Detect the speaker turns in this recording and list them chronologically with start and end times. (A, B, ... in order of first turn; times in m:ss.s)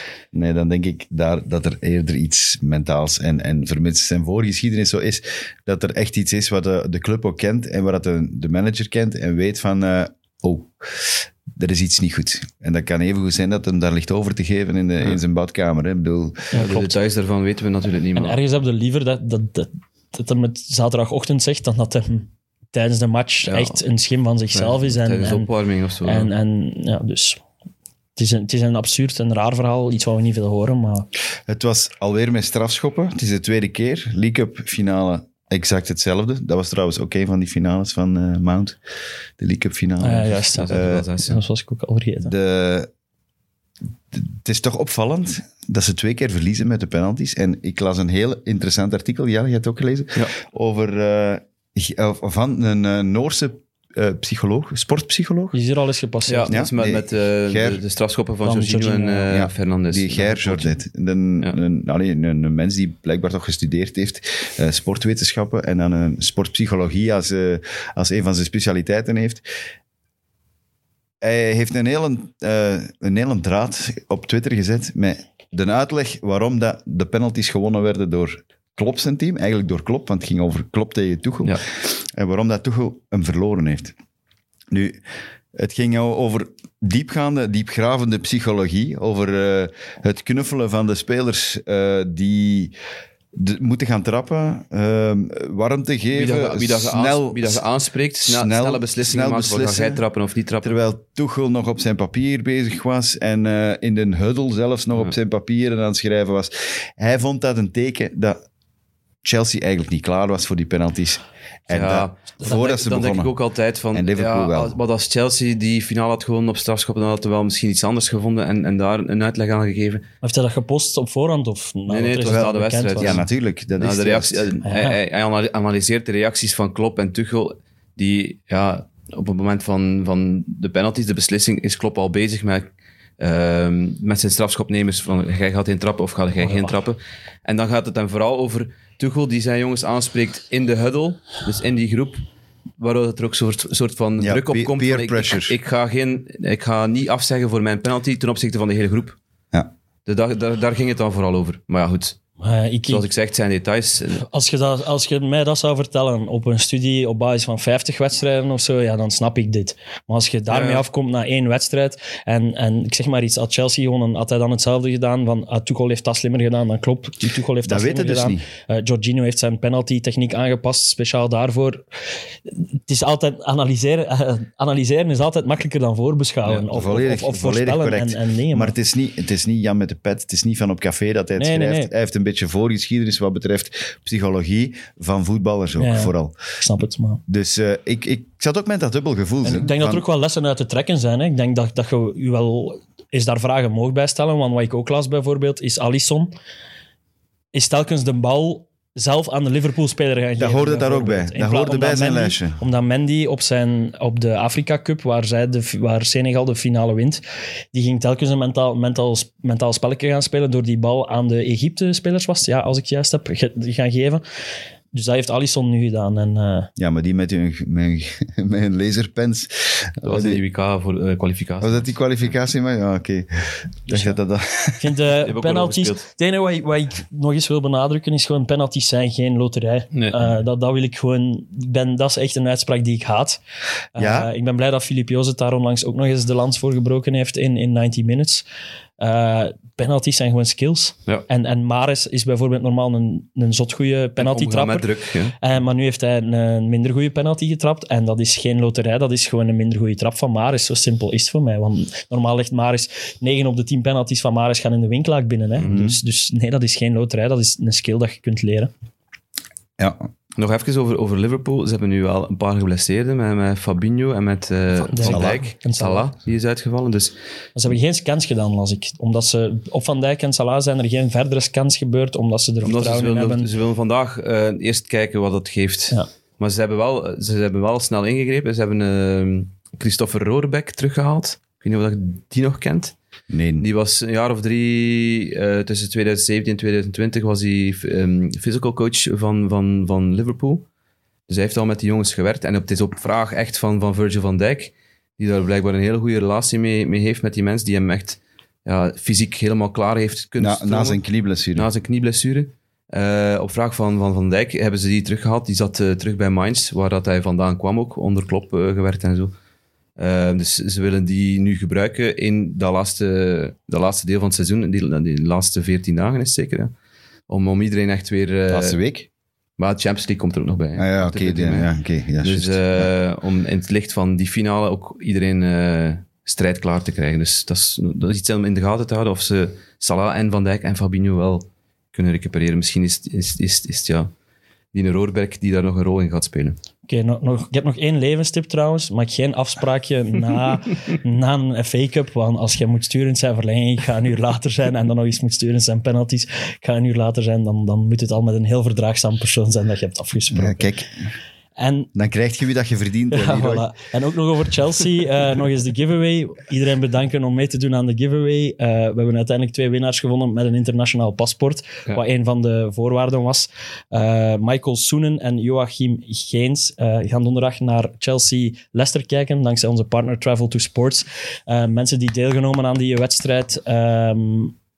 0:00.3-0:16.5 A
0:16.5-0:17.0 B
0:16.5-0:18.4 C
0:18.2-0:25.5 B
0:23.5-0:23.8 C
0:24.5-0:26.3 C
0:26.0-0:27.4 B
0:28.2-0:31.1 B
0:31.5-0:38.8 A
0:39.4-0:41.1 A
0:40.0-0:42.3 B
0:40.5-0:41.4 C
0:42.2-0:42.9 A
0:44.1-0:55.6 A
0:55.5-0:56.6 B
0:56.3-1:00.8 C
0:56.5-0:57.8 A
0:58.5-0:59.3 B
0:59.3-1:09.4 A
1:11.2-1:23.9 A
1:24.7-1:25.0 A
1:25.5-1:32.7 A
1:33.3-1:37.7 A
1:36.1-1:40.8 C
1:38.2-1:40.0 A
1:40.6-1:48.4 A
1:49.2-1:53.4 A
1:51.7-2:00.0 C
1:53.9-1:54.8 A
2:00.2-2:03.2 B
2:01.9-2:03.3 C
2:02.2-2:04.5 A
2:03.8-2:22.2 C
2:04.6-2:05.0 B
2:22.8-2:29.2 C
2:24.2-2:25.6 A
2:30.1-2:32.2 C
2:32.4-2:33.1 B
2:32.9-2:34.2 C
2:34.2-2:51.8 B
2:40.5-2:40.8 C
2:47.6-2:48.5 A
2:52.5-2:58.8 B
2:56.7-3:06.4 A
3:01.4-3:01.9 B
3:05.8-3:07.2 B
3:07.3-3:10.0 A
3:09.4-3:16.3 B
3:17.5-3:27.2 B
3:20.4-3:22.6 A
3:27.7-3:34.2 B
3:34.9-3:36.7 B
3:36.8-3:40.4 A
3:40.0-3:41.9 C
3:41.6-3:44.9 A
3:43.9-3:44.2 B
3:44.8-3:53.4 B
3:45.2-3:46.1 C
3:49.9-3:50.3 C
3:54.0-3:58.4 B
3:54.0-3:54.3 A
3:59.0-4:04.9 B
4:04.2-4:05.4 C
4:05.4-4:18.7 B
4:15.6-4:16.0 A
4:19.8-4:20.1 A
4:20.4-4:27.2 C
4:24.9-4:26.1 B
4:25.1-4:25.4 A
4:27.6-4:33.5 B
4:32.6-4:43.0 C
4:43.3-4:43.7 A
4:43.6-4:50.6 C
4:51.3-5:01.0 C
5:00.4-5:01.7 A
5:01.6-5:09.3 C
5:10.0-5:16.7 C
5:17.3-5:18.8 C
5:18.5-5:19.1 A
5:19.6-5:21.7 C
5:20.8-5:22.9 A
5:22.2-5:34.1 C
5:34.7-5:36.6 C
5:36.9-5:50.7 B
5:50.3-5:51.1 A
5:51.6-5:51.9 B
5:52.0-5:53.7 A
5:53.1-6:14.6 B